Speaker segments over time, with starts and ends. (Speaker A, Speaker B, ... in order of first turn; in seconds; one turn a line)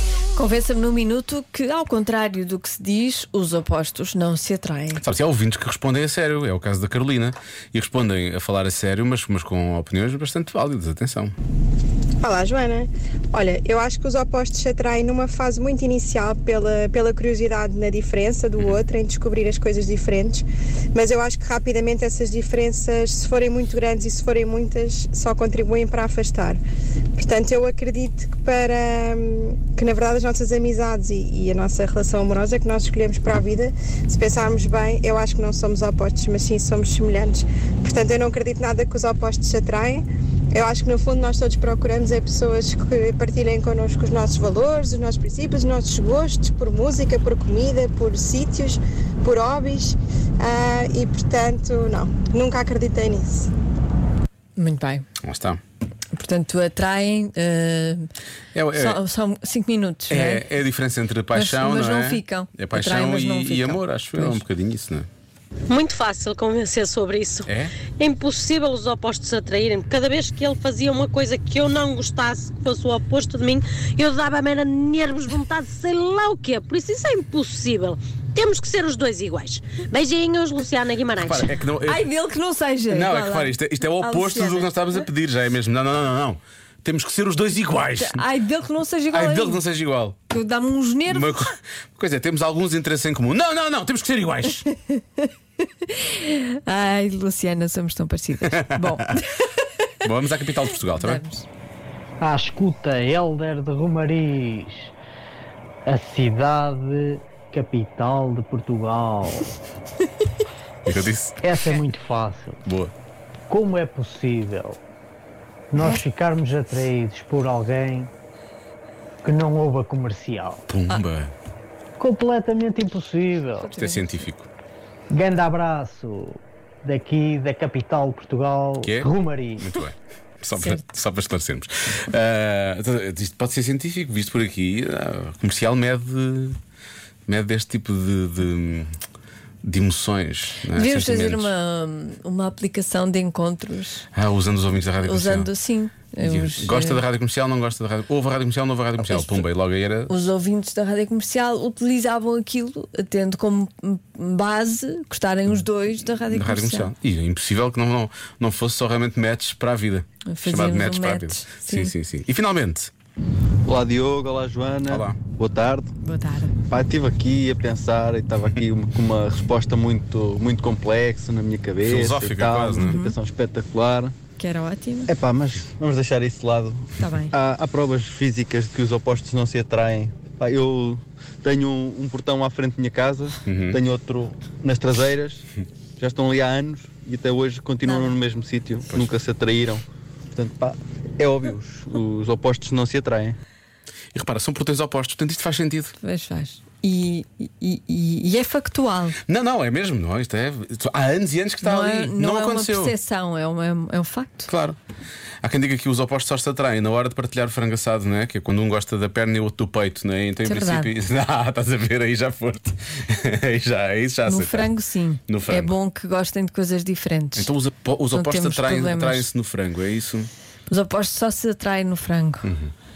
Speaker A: 0.3-5.0
Speaker B: 4.9-11.3
Speaker C: 12.2-26.6
Speaker C: 27.2-53.5
Speaker A: 54.5-55.0
Speaker B: 55.2-55.6
Speaker A: 56.1-58.1
Speaker B: 58.5-59.0
Speaker A: 58.7-60.5
Speaker B: 60.1-65.1
Speaker A: 61.3-64.4
Speaker D: 65.7-81.5
Speaker B: 67.5-67.8
Speaker B: 81.2-82.1
Speaker A: 81.8-84.7
Speaker B: 82.9-88.2
Speaker A: 88.0-89.6
Speaker B: 89.1-90.2
Speaker A: 90.3-91.4
Speaker B: 91.1-94.7
Speaker A: 94.7-95.3
Speaker A: 95.9-99.6
Speaker B: 98.5-99.1
Speaker B: 100.0-101.2
Speaker A: 100.9-101.4
Speaker E: 102.2-104.9
Speaker E: 105.8-109.5
Speaker B: 110.8-111.8
Speaker E: 111.4-112.6
Speaker B: 112.6-112.9
Speaker E: 113.5-114.8
Speaker E: 115.7-118.1
Speaker E: 119.2-120.6
Speaker B: 120.7-121.3
Speaker E: 122.0-123.7
Speaker A: 123.6-124.3
Speaker B: 123.7-124.5
Speaker E: 125.1-129.8
Speaker B: 128.8-136.6
Speaker B: 137.3-138.9
Speaker B: 139.6-141.5
Speaker A: 140.7-144.1
Speaker B: 144.1-145.5
Speaker A: 145.0-147.0
Speaker B: 146.2-150.1
Speaker A: 149.0-149.4
Speaker A: 150.1-156.9
Speaker B: 156.2-162.9
Speaker A: 160.2-161.9
Speaker F: 163.7-165.9
Speaker B: 164.9-165.2
Speaker A: 166.0-166.5
Speaker F: 166.7-174.2
Speaker B: 171.8-173.0
Speaker A: 172.8-173.2
Speaker A: 174.4-175.1
Speaker F: 175.1-185.4
Speaker A: 177.0-177.3
Speaker B: 183.5-183.8
Speaker F: 186.0-193.4
Speaker A: 187.8-188.1
Speaker B: 194.1-195.9
Speaker A: 196.0-199.2
Speaker B: 199.3-202.9
Speaker A: 201.6-204.5
Speaker B: 204.5-204.8
Speaker B: 205.4-214.7
Speaker A: 210.4-210.9
Speaker A: 214.2-217.5
Speaker B: 215.3-215.8
Speaker B: 217.3-220.3
Speaker A: 218.1-219.3
Speaker A: 220.7-222.5
Speaker B: 222.4-222.7